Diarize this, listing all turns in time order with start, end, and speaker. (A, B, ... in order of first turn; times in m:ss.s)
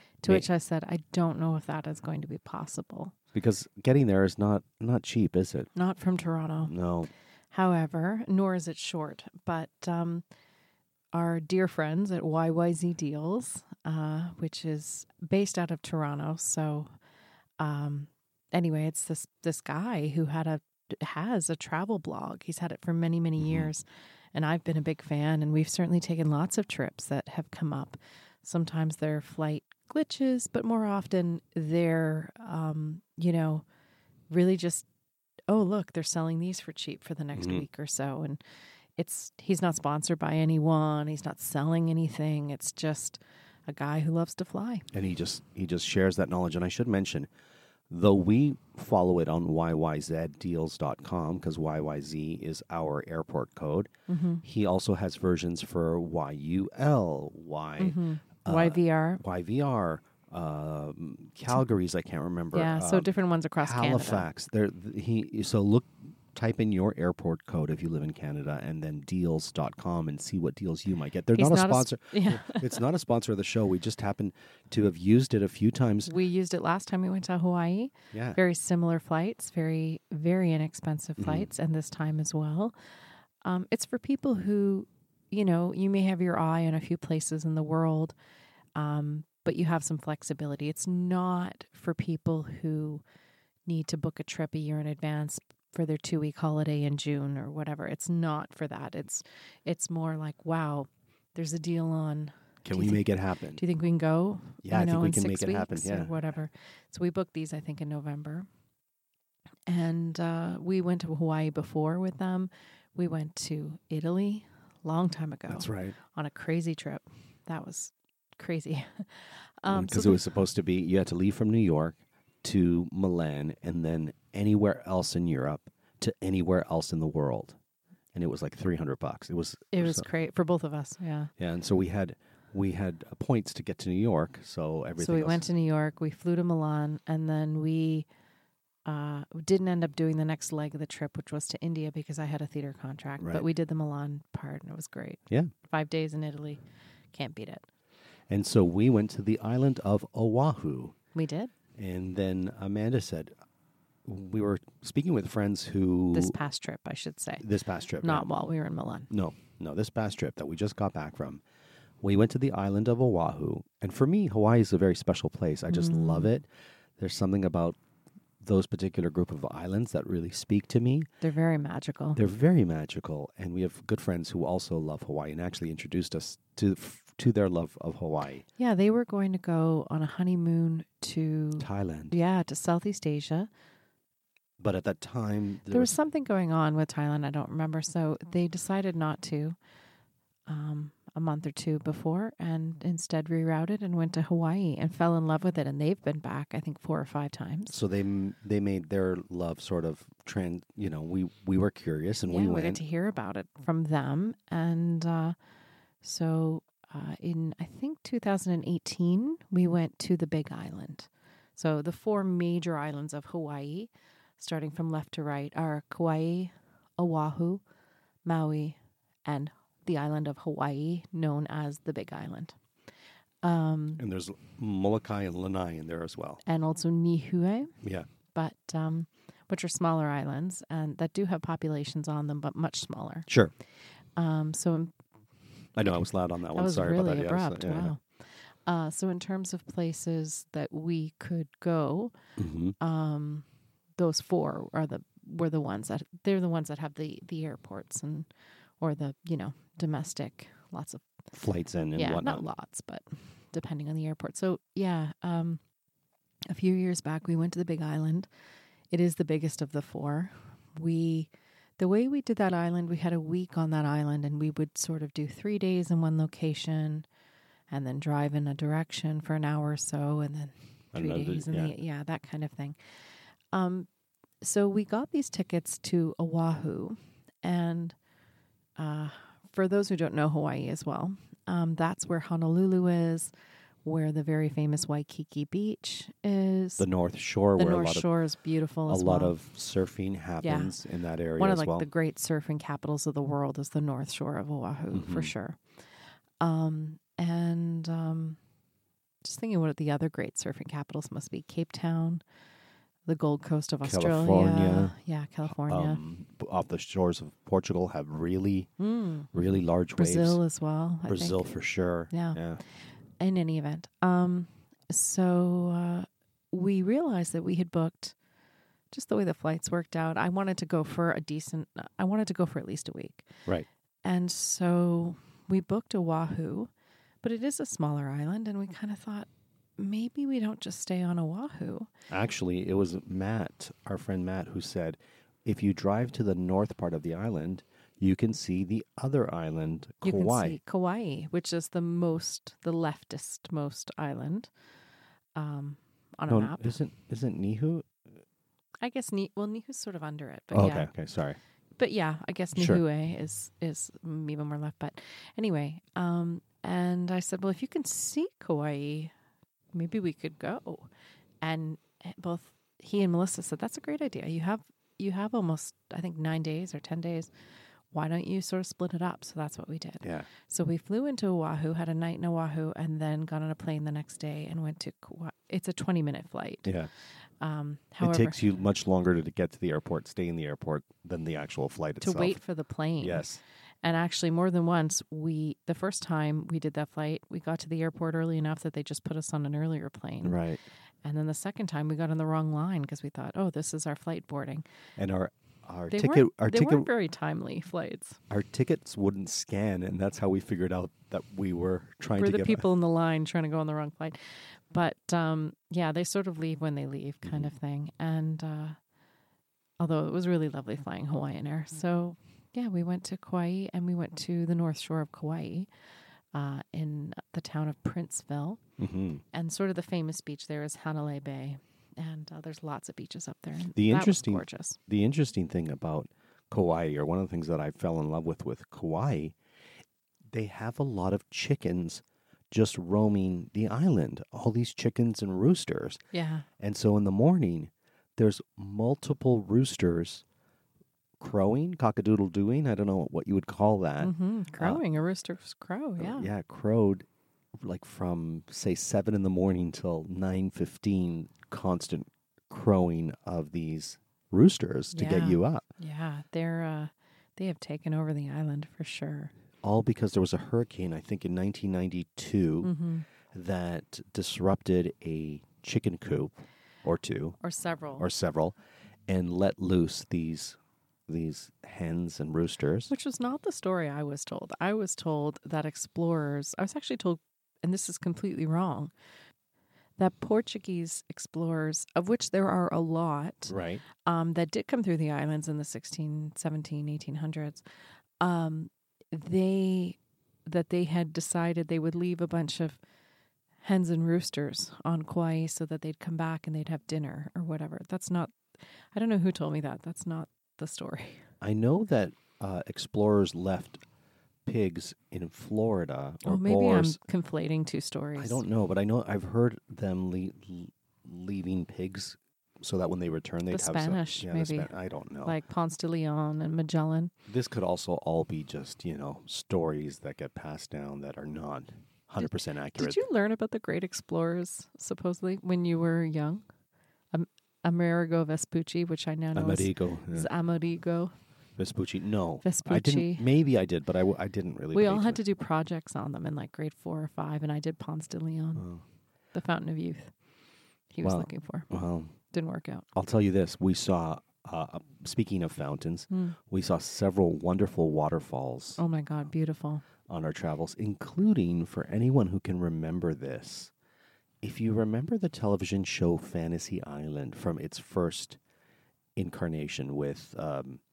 0:00.2-0:03.1 A
0:03.3-0:05.7 B
0:05.7-0:06.7 A
0:06.7-0:07.1 B
0:07.5-0:10.2 A
0:11.1-0:16.9 A
0:17.6-0:33.6 A
0:23.4-0:23.7 B
0:34.3-0:34.9 A
0:35.5-0:38.4 A
0:37.4-0:37.7 B
0:39.0-0:44.9 A
0:44.9-0:47.3 B
0:47.9-0:53.9 B
0:54.1-0:54.4 A
0:54.4-1:16.1 B
0:57.8-0:59.2 A
1:02.5-1:04.3 A
1:11.3-1:12.7 A
1:16.0-1:22.8 A
1:18.1-1:18.4 B
1:21.2-1:21.5 B
1:23.4-1:28.2 A
1:28.8-1:33.0 A
1:33.7-1:43.0 A
1:42.6-1:43.6 B
1:43.6-1:48.5 A
1:44.6-1:46.2 B
1:49.7-2:00.2 A
1:55.5-1:56.0 B
1:59.7-2:07.6 B
2:08.1-2:10.1 B
2:09.7-2:11.3 A
2:11.4-2:15.5 B
2:15.0-2:18.1 A
2:18.9-2:26.6 A
2:23.2-2:23.5 B
2:27.1-2:27.7 A
2:28.3-2:31.0 B
2:31.2-2:31.5 A
2:31.8-2:33.3 B
2:34.0-2:36.4 B
2:36.1-2:37.4 A
2:37.4-2:38.3 B
2:38.0-2:39.1 A
2:39.1-2:41.4 B
2:42.0-2:47.8 B
2:45.7-2:46.3 A
2:48.4-2:51.1 B
2:51.2-2:52.2 A
2:52.2-2:58.5 B
2:58.6-3:03.5 A
3:01.6-3:02.2 B
3:04.6-3:05.9 B
3:05.7-3:09.6 A
3:10.5-3:17.8 A
3:17.7-3:22.8 B
3:22.3-3:25.4 A
3:26.0-3:37.6 A
3:38.2-3:42.6 A
3:43.4-3:44.0 A
3:44.0-3:46.4 B
3:46.4-3:47.7 A
3:47.8-3:48.1 B
3:48.3-3:53.3 A
3:53.3-3:53.5 B
3:54.2-3:54.9 A
3:55.8-3:57.9 B
3:56.5-4:02.2 A
4:02.4-4:02.8 B
4:02.8-4:03.5 A
4:04.0-4:08.3 A
4:08.8-4:11.0 A
4:11.3-4:12.4 B
4:12.0-4:15.6 A
4:16.5-4:18.3 A
4:18.9-4:27.1 A
4:27.7-4:32.8 A
4:30.9-4:31.7 B
4:33.5-4:33.9 A
4:34.4-4:38.0 A
4:38.8-4:43.3 A
4:43.8-4:46.9 A
4:46.8-4:48.1 B
4:47.6-4:49.4 A
4:48.9-4:51.9 B
4:50.4-4:50.8 A
4:51.4-4:55.6 A
4:54.9-4:55.3 B
4:56.4-4:58.4 A
4:59.2-5:02.2 A
5:03.1-5:06.0 A
5:03.8-5:05.0 B
5:05.5-5:08.7 B
5:08.8-5:09.3 A
5:09.3-5:10.4 B
5:10.0-5:11.5 A
5:11.1-5:12.6 B
5:12.1-5:12.4 A
5:13.2-5:18.2 A
5:18.9-5:23.3 A
5:24.0-5:26.7 A
5:27.2-5:31.9 A
5:32.1-5:40.6 B
5:40.0-5:44.5 A
5:45.4-5:46.8 A
5:46.3-5:48.0 B
5:48.8-5:50.9 A
5:50.5-5:51.4 B
5:51.8-5:59.1 A
5:52.5-5:52.8 B
5:59.7-6:00.9 A
6:01.4-6:07.3 A
6:07.9-6:16.7 A
6:10.0-6:10.3 B
6:16.6-6:16.9 B
6:17.4-6:18.4 A
6:18.0-6:22.4 B
6:22.0-6:23.3 A
6:23.0-6:23.4 B
6:23.8-6:30.4 A
6:30.2-6:30.6 B
6:31.0-6:34.6 A
6:35.0-6:36.9 B
6:35.9-6:38.2 A
6:38.3-6:42.6 B
6:42.2-6:48.8 A
6:47.2-6:47.5 B
6:49.8-6:55.7 A
6:56.3-6:58.6 A
6:58.8-6:59.2 B
6:59.3-7:04.8 A
7:03.8-7:09.4 B
7:10.3-7:16.0 B
7:16.1-7:16.5 A
7:16.6-7:20.2 B
7:21.2-7:24.8 B
7:24.0-7:26.3 A
7:26.0-7:35.6 B
7:34.9-7:39.3 A
7:39.6-7:42.7 B
7:42.6-7:43.0 A
7:43.3-7:47.4 B
7:47.4-7:48.1 A
7:48.0-7:48.6 B
7:49.1-7:52.9 B
7:52.9-7:58.9 A
8:00.0-8:03.5 A
8:03.5-8:03.8 B
8:04.0-8:07.6 A
8:08.2-8:12.8 A
8:13.6-8:18.4 A
8:18.9-8:21.2 A
8:21.4-8:23.8 B
8:24.4-8:27.0 B
8:26.2-8:28.4 A
8:28.2-8:35.4 B
8:33.5-8:34.7 A
8:35.2-8:37.1 A
8:37.3-8:43.0 B
8:42.2-8:46.4 A
8:47.1-8:51.1 A
8:49.3-8:50.3 B
8:51.6-8:55.2 B
8:52.4-8:53.3 A
8:54.7-8:58.7 A
8:58.6-8:58.8 B
8:59.3-9:00.1 A
9:00.9-9:01.7 A
9:01.0-9:02.1 B
9:02.3-9:02.9 A
9:03.0-9:08.8 B
9:06.1-9:06.4 A
9:08.8-9:09.8 A
9:10.1-9:13.7 B
9:14.4-9:18.4 B
9:19.2-9:20.8 B